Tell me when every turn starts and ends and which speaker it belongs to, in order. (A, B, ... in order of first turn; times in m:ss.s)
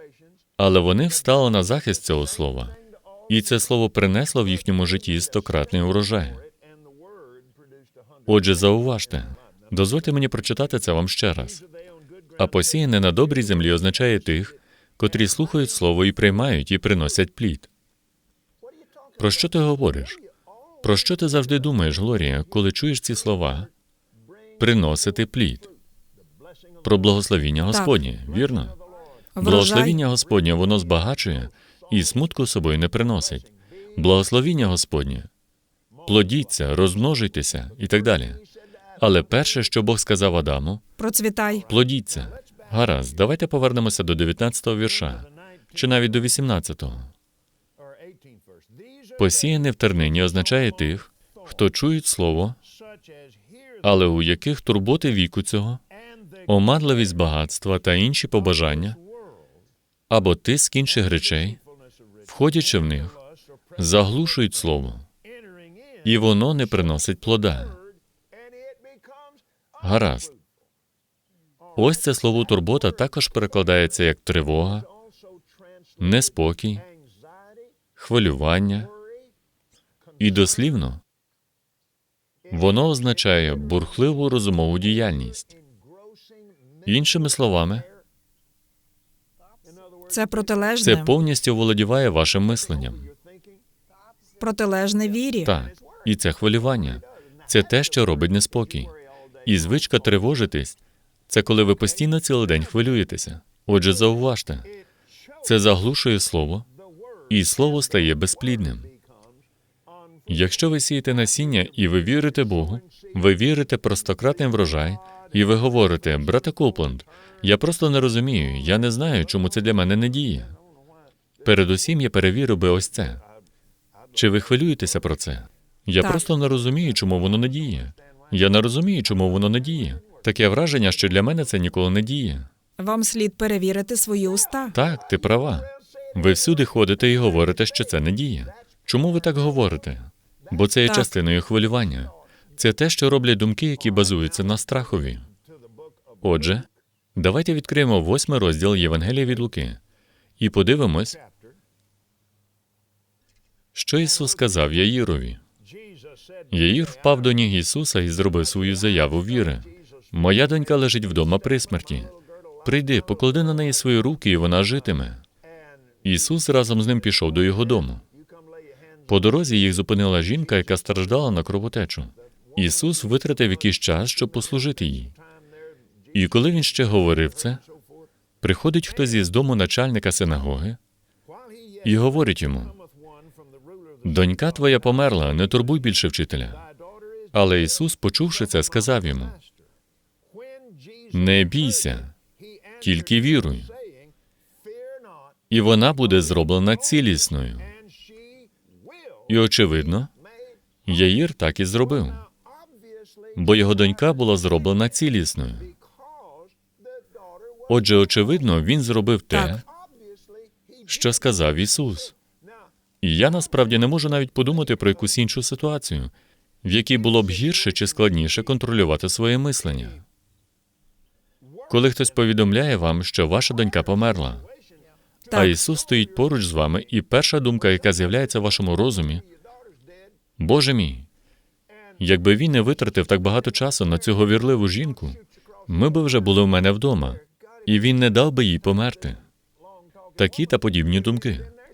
0:00.6-0:02.8 A
0:03.3-0:06.4 A
0:08.3-0:11.6 A
0:12.4-0:17.7 A
0:19.2-0:20.2 A
0:20.8-0:23.7 A
0:24.6-0:25.7 A
0:26.8-0:28.8 A
0:27.7-0:27.9 B
0:29.4-0:30.0 B
0:29.4-0:35.3 A
0:36.0-0:38.4 A
0:39.0-0:40.8 A
0:41.0-0:41.7 B
0:41.7-0:47.1 A
0:49.2-0:52.6 A
0:53.8-0:55.8 A
0:56.4-0:59.0 A
1:00.1-1:01.6 A
1:02.3-1:03.2 A
1:03.8-1:05.1 A
1:06.0-1:07.8 A
1:09.8-1:10.3 A
1:11.8-1:14.9 A
1:16.0-1:16.8 A
1:18.0-1:18.9 A
1:20.2-1:21.0 A
1:22.5-1:25.5 A
1:26.8-1:27.9 A
1:30.1-1:31.1 B
1:30.8-1:33.1 A
1:34.4-1:35.5 B
1:35.4-1:40.8 A
1:41.3-1:44.7 A
1:45.4-1:46.7 A
1:47.3-1:48.9 A
1:50.3-2:00.6 A
2:01.4-2:03.2 A
2:04.1-2:12.5 A
2:06.0-2:06.2 B
2:12.8-2:14.8 B
2:14.7-2:25.3 A
2:20.8-2:21.1 B
2:26.2-2:29.8 A
2:30.4-2:31.2 A
2:33.7-2:35.4 A
2:36.5-2:45.2 A
2:46.0-2:48.0 A
2:49.1-2:55.2 A
2:56.1-2:57.6 A
2:58.4-3:00.8 A
3:01.8-3:02.8 A
3:04.0-3:06.6 A
3:07.3-3:09.4 A
3:11.1-3:12.2 A
3:12.8-3:13.7 A
3:15.5-3:17.7 A
3:19.3-3:20.1 A
3:20.8-3:22.2 A
3:23.3-3:25.7 A
3:27.7-3:29.6 A
3:29.3-3:29.6 B
3:30.8-3:32.2 A
3:33.0-3:40.0 A
3:41.7-3:44.5 A
3:45.3-3:45.6 B
3:45.3-3:49.2 A
3:50.4-3:51.1 A
3:52.0-3:59.2 A
4:00.2-4:01.5 A